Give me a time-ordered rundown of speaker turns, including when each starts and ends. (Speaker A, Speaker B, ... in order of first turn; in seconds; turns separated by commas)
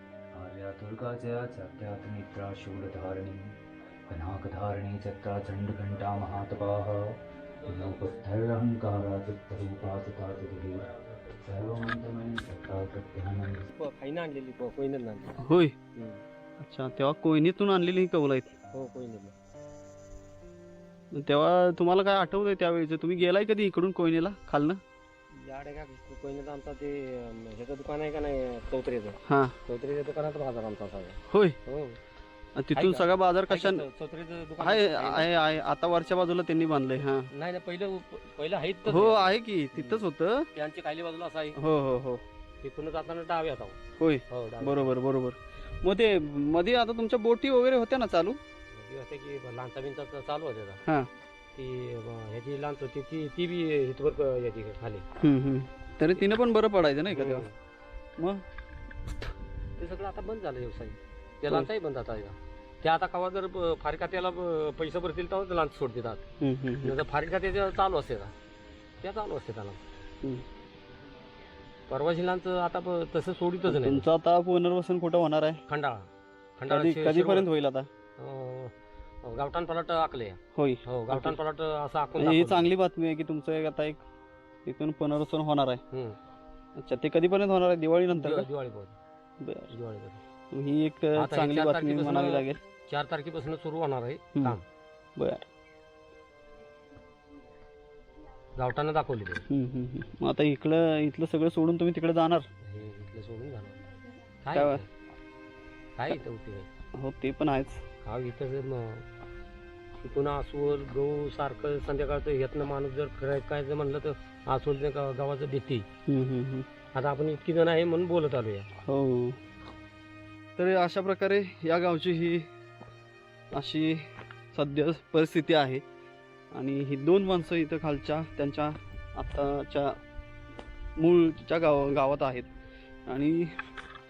Speaker A: 0.3-13.7, Speaker B: 13.7-15.4, Speaker C: 15.4-15.7, Speaker B: 15.9-16.2, Speaker C: 16.6-18.5, Speaker B: 18.7-19.3, Speaker C: 21.1-24.8, Speaker B: 25.3-32.0, Speaker C: 29.3-29.6, Speaker C: 31.3-31.6, Speaker C: 32.5-33.8, Speaker B: 32.7-35.3, Speaker C: 34.6-37.3, Speaker B: 37.3-40.0, Speaker C: 38.9-40.5, Speaker B: 40.5-41.6, Speaker C: 41.5-42.2, Speaker B: 42.6-43.8, Speaker C: 44.0-48.4, Speaker B: 44.3-44.9, Speaker B: 48.7-50.8, Speaker B: 51.5-55.0, Speaker C: 55.2-57.5, Speaker B: 57.1-57.5, Speaker C: 58.2-58.4, Speaker B: 59.8-66.2, Speaker C: 66.4-67.0, Speaker B: 66.8-68.3, Speaker B: 69.0-69.8, Speaker B: 71.9-74.0, Speaker C: 73.7-75.6, Speaker B: 75.7-77.5, Speaker C: 76.7-77.9, Speaker B: 78.2-78.7, Speaker B: 79.2-82.7, Speaker C: 80.5-81.4, Speaker C: 82.2-84.0, Speaker C: 84.7-85.8, Speaker B: 85.9-86.2, Speaker C: 86.8-88.5, Speaker B: 88.1-88.9, Speaker C: 89.4-89.7, Speaker B: 89.7-90.2, Speaker C: 90.5-92.6, Speaker B: 91.2-94.6, Speaker C: 95.2-95.5, Speaker B: 98.5-99.4, Speaker C: 99.5-102.5, Speaker B: 102.6-103.8, Speaker B: 104.4-104.8, Speaker C: 104.5-104.8, Speaker B: 106.0-106.7, Speaker C: 107.0-107.8, Speaker B: 108.0-109.0, Speaker B: 110.0-115.8, Speaker C: 116.1-116.7, Speaker B: 116.9-118.7, Speaker C: 118.8-119.4, Speaker C: 120.5-122.5, Speaker C: 123.5-125.8, Speaker C: 126.5-130.0, Speaker C: 131.0-132.5, Speaker C: 133.1-133.7